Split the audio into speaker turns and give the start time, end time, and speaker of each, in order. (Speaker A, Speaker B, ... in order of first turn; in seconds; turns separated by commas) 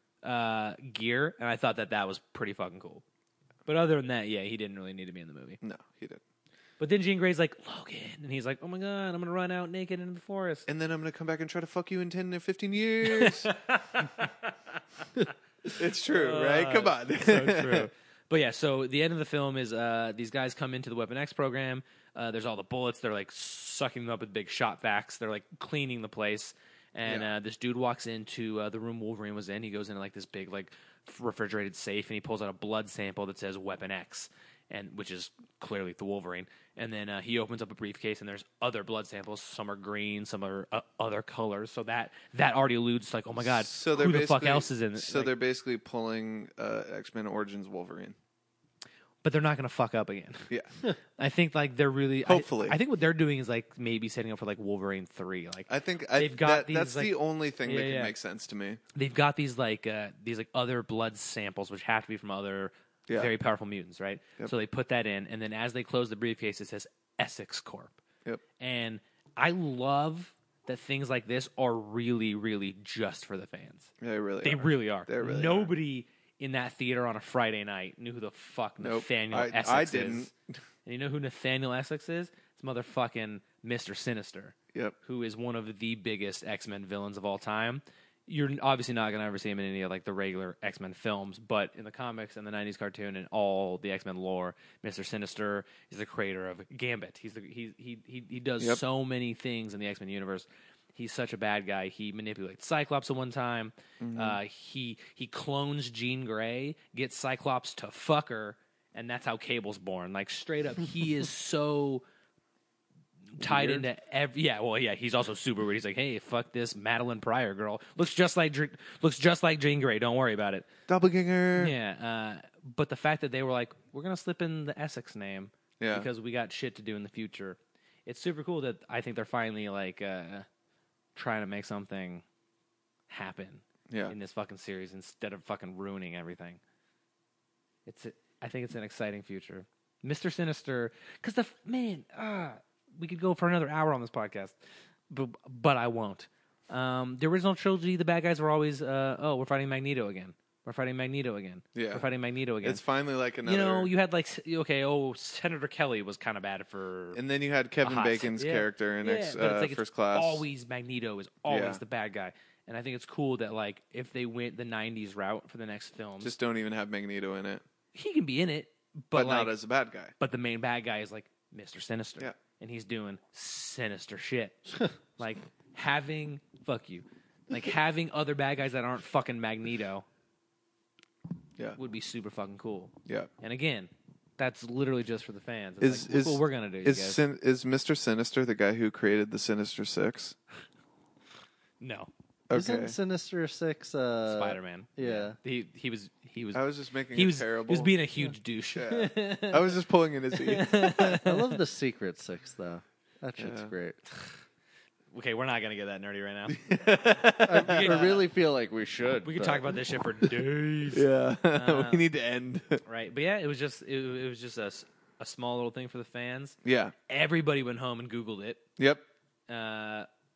Speaker A: 0.2-3.0, Speaker A: 3.7-5.6, Speaker B: 5.6-6.2, Speaker A: 6.8-10.7, Speaker B: 10.7-13.5, Speaker A: 13.1-14.6, Speaker B: 15.7-17.9, Speaker A: 16.1-45.3, Speaker B: 27.0-27.3, Speaker B: 43.4-48.2, Speaker A: 49.2-50.5, Speaker A: 51.2-58.1, Speaker B: 52.2-52.8, Speaker B: 55.7-58.8, Speaker A: 59.0-68.0, Speaker B: 63.1-63.3, Speaker A: 68.6-73.9, Speaker B: 74.0-75.7, Speaker A: 74.4-80.3, Speaker B: 78.8-80.6, Speaker A: 80.8-112.0, Speaker B: 104.0-104.4, Speaker A: 113.3-120.7, Speaker B: 113.4-113.9, Speaker B: 120.9-121.8, Speaker A: 121.6-130.5, Speaker B: 125.8-126.1, Speaker A: 131.2-132.2, Speaker A: 133.1-136.6, Speaker B: 133.9-134.2, Speaker A: 137.9-144.6, Speaker A: 145.1-152.8, Speaker B: 151.8-152.1, Speaker B: 152.6-153.9, Speaker A: 153.4-157.2, Speaker B: 157.1-160.4, Speaker A: 157.8-166.3, Speaker B: 161.5-161.8, Speaker B: 166.2-167.6, Speaker A: 167.9-169.6, Speaker B: 169.1-170.1, Speaker A: 170.2-180.1, Speaker A: 181.8-187.2, Speaker B: 185.8-190.4, Speaker A: 191.8-192.1, Speaker B: 192.5-193.0, Speaker C: 192.5-195.4, Speaker A: 194.3-199.7, Speaker B: 196.5-197.9, Speaker B: 198.7-201.0, Speaker A: 200.3-201.6, Speaker C: 201.0-204.0, Speaker B: 203.4-203.7, Speaker A: 205.1-206.6, Speaker B: 206.5-208.0, Speaker C: 207.4-209.8, Speaker A: 207.6-208.2, Speaker A: 209.2-212.1, Speaker B: 210.9-212.8, Speaker A: 212.8-216.6, Speaker B: 216.7-216.9, Speaker A: 217.1-218.6, Speaker B: 218.8-219.0, Speaker A: 219.5-220.1